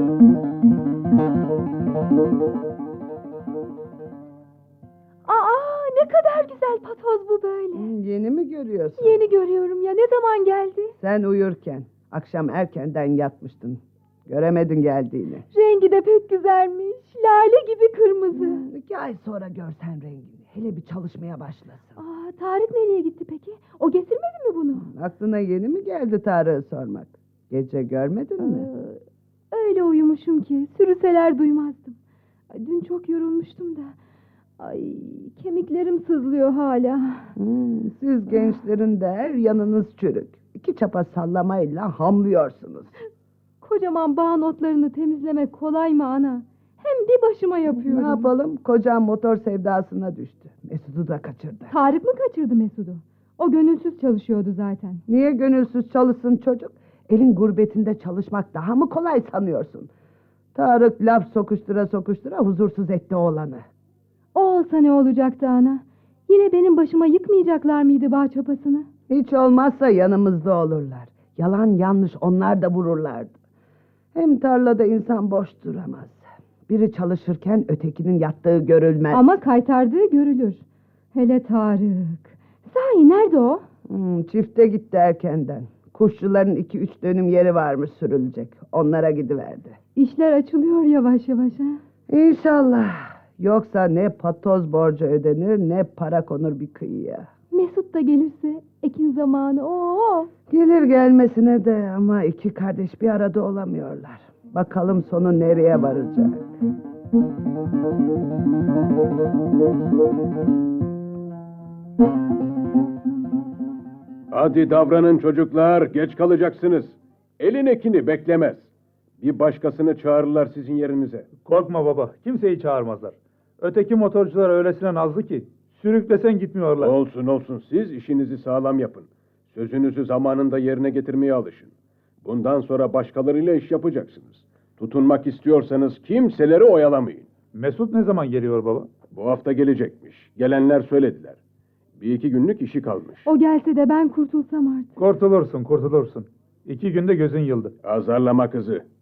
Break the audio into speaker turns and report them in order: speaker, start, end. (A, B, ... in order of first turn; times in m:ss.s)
0:05.3-0:07.9 A
0:07.7-0:09.2 B
0:09.0-0:10.9 A
0:11.0-0:15.4 B
0:15.5-0:18.6 A
0:18.4-0:21.9 B
0:22.0-0:24.9 A
0:24.9-0:28.7 B
0:28.4-0:29.0 A
0:29.5-0:32.0 A
0:32.5-0:33.9 A
0:34.6-0:37.3 A
0:37.4-0:42.9 B
0:43.6-0:48.3 A
0:47.9-0:51.7 B
0:51.7-0:55.0 A
0:55.1-0:59.9 B
1:00.5-1:03.6 B
1:04.3-1:08.9 A
1:09.1-1:13.3 B
1:14.1-1:19.3 B
1:19.1-1:20.6 A
1:21.1-1:23.6 A
1:23.9-1:29.8 B
1:29.9-1:31.8 A
1:32.1-1:37.3 B
1:37.5-1:40.3 A
1:40.5-1:46.4 B
1:54.3-1:58.7 C
1:59.2-2:01.3 C
2:01.4-2:06.9 D
2:06.8-2:11.7 C
2:12.2-2:17.3 C
2:17.5-2:18.9 D
2:19.1-2:21.4 C
2:22.0-2:23.2 C
2:23.2-2:24.9 A
2:25.0-2:27.7 D
2:27.8-2:28.8 C